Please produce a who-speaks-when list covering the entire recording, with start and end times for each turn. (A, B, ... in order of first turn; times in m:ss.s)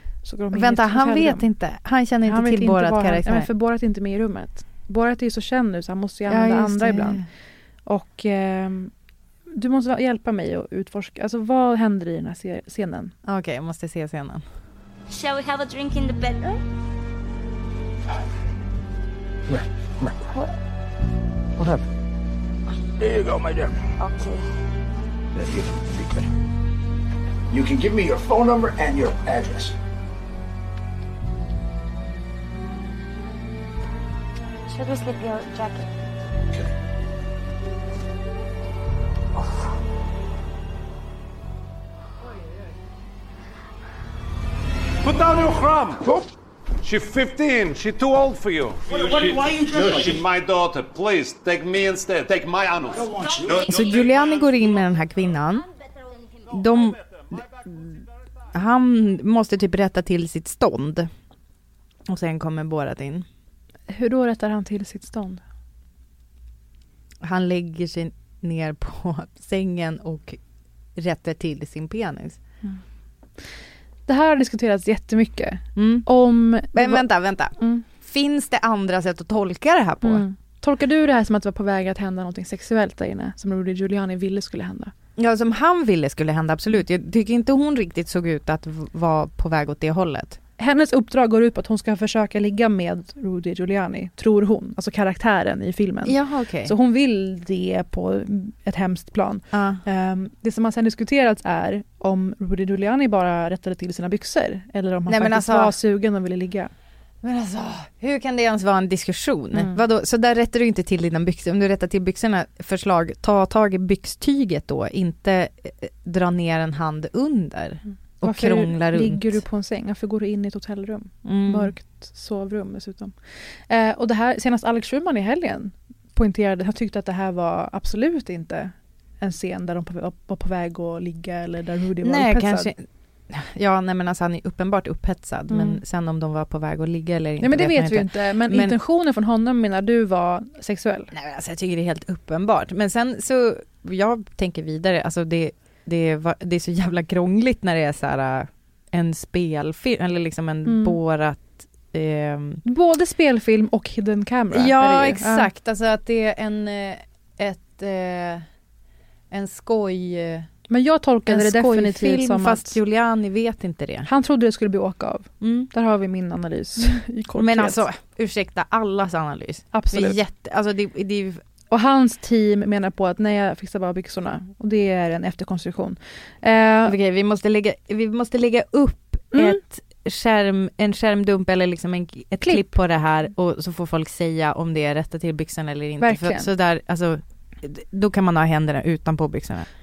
0:00.2-0:01.5 A
0:00.5-0:03.5 B
0:02.2-0:07.2 A
0:06.3-0:07.2 B
0:07.8-0:08.9 A
0:09.5-0:13.1 A
0:13.2-0:14.4 B
0:15.1-0:16.6 C
0:19.5-0:20.2 D
0:23.0-0:23.7 D
0:24.0-0:24.4 C
0:25.4-0:26.2 D
0:27.5-0:29.7 D
0:34.7-0:35.9 C
0:46.9-0:48.7 E
0:50.6-0:52.3 E
0:53.6-0:55.6 B
0:56.5-1:01.1 B
1:02.1-1:03.2 B
1:03.9-1:05.4 A
1:07.2-1:10.4 B
1:11.0-1:12.4 B
1:14.1-1:17.1 A
1:15.8-1:16.0 B
1:16.7-1:20.2 B
1:17.6-1:17.8 A
1:20.0-1:24.9 A
1:25.2-1:30.4 B
1:30.6-1:46.7 A
1:36.0-1:36.7 B
1:39.5-1:39.8 B
1:45.1-1:45.7 B
1:47.2-1:59.4 B
1:49.5-1:49.8 A
1:58.2-2:12.7 A
2:01.2-2:01.7 B
2:12.0-2:18.7 B
2:15.5-2:15.8 A
2:17.4-2:21.1 A
2:21.1-2:32.6 B
2:30.6-2:31.0 A
2:32.6-2:35.5 A
2:34.5-2:38.4 B
2:39.3-2:40.5 B
2:40.7-2:42.8 A
2:41.3-2:44.1 B
2:44.0-2:47.8 A
2:45.4-2:45.7 B
2:47.4-2:51.4 B
2:49.7-2:50.2 A
2:51.7-2:56.9 A
2:56.8-3:09.7 B
2:59.3-2:59.6 A
3:02.4-3:02.8 A
3:06.0-3:06.5 A